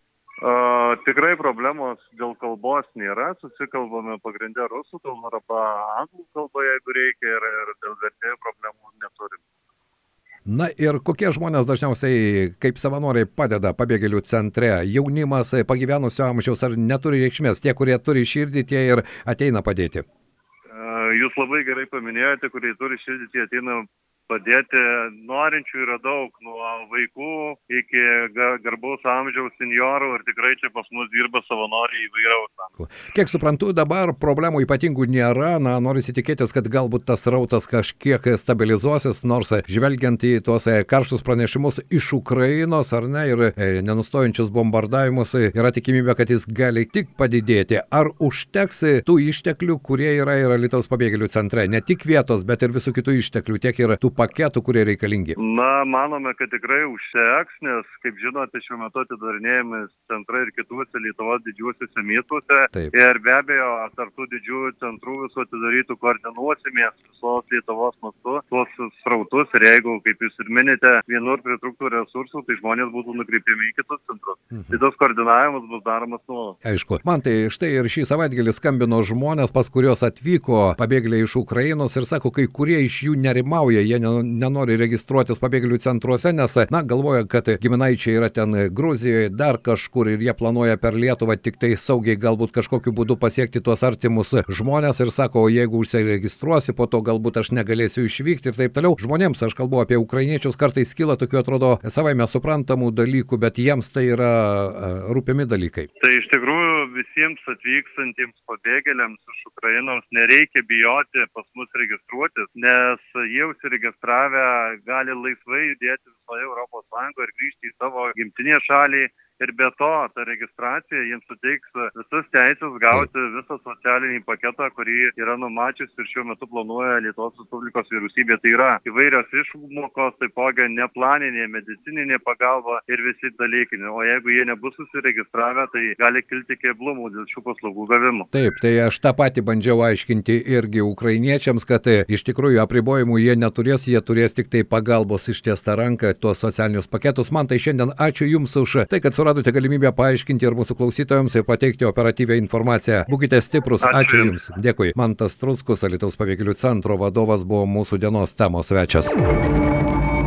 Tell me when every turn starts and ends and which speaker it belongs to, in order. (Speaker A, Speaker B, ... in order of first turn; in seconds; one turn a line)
Speaker A: 0.4-9.4
Speaker B: 10.4-20.0
Speaker A: 20.7-32.7
Speaker B: 32.8-55.4
Speaker A: 55.4-76.6
Speaker B: 74.5-74.8
Speaker B: 76.6-105.9
Speaker A: 106.0-138.3
Speaker B: 138.3-159.2
Speaker A: 153.8-154.3